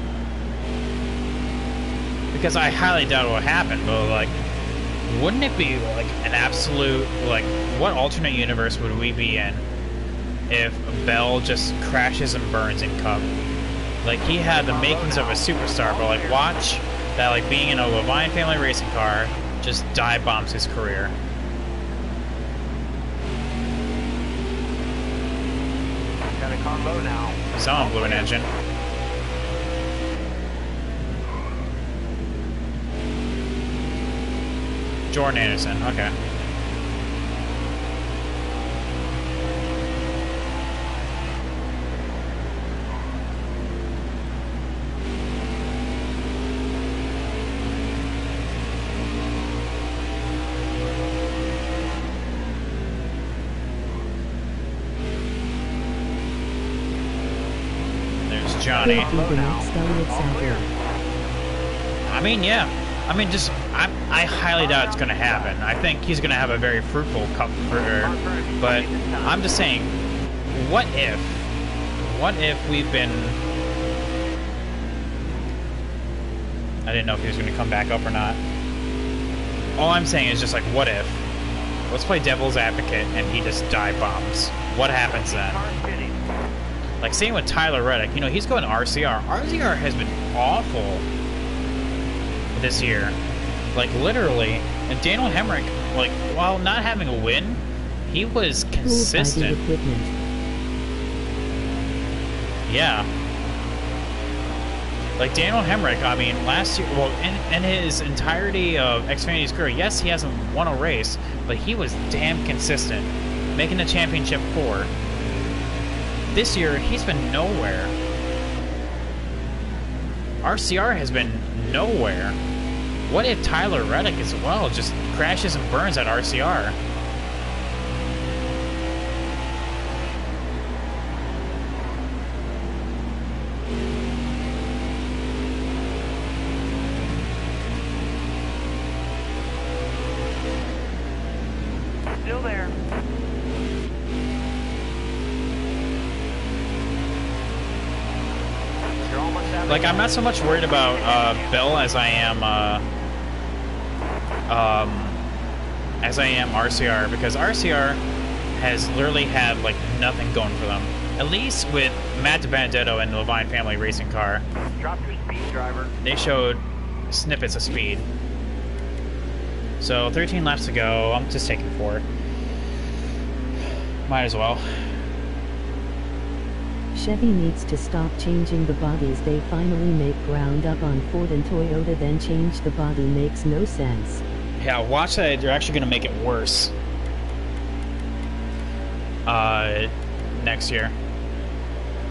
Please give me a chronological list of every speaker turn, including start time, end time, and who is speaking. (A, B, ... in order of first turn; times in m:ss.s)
0:02.3-0:04.4 A
0:05.1-0:09.7 A
0:10.5-0:13.3 A
0:14.0-0:21.2 A
0:14.4-0:16.6 B
0:26.4-0:28.3 B
0:27.5-0:28.5 A
0:35.1-0:36.1 A
0:58.3-0:59.2 A
0:58.7-1:00.7 B
0:58.8-1:00.7 C
1:02.1-1:10.0 A
1:04.5-1:05.6 B
1:07.7-1:09.5 B
1:10.5-1:11.5 A
1:12.0-1:13.4 A
1:16.8-1:18.4 A
1:19.8-1:21.3 A
1:21.9-1:25.6 A
1:25.2-1:26.3 B
1:27.0-1:31.0 A
1:32.5-1:33.2 A
1:33.7-1:39.6 A
1:38.8-1:40.1 C
1:42.7-1:43.1 A
1:45.2-1:54.9 A
1:56.3-1:57.9 A
2:00.4-2:02.4 A
2:03.1-2:06.8 A
2:22.2-2:22.8 B
2:29.0-2:32.1 B
2:29.7-2:32.8 A
2:34.5-2:35.2 A
2:36.0-2:38.0 A
2:38.6-2:44.4 A
2:44.8-2:45.9 B
2:46.0-2:48.1 A
2:49.8-2:52.1 A
2:54.1-2:54.8 A
2:56.9-3:04.2 C
3:04.6-3:06.7 A
3:09.3-3:11.0 A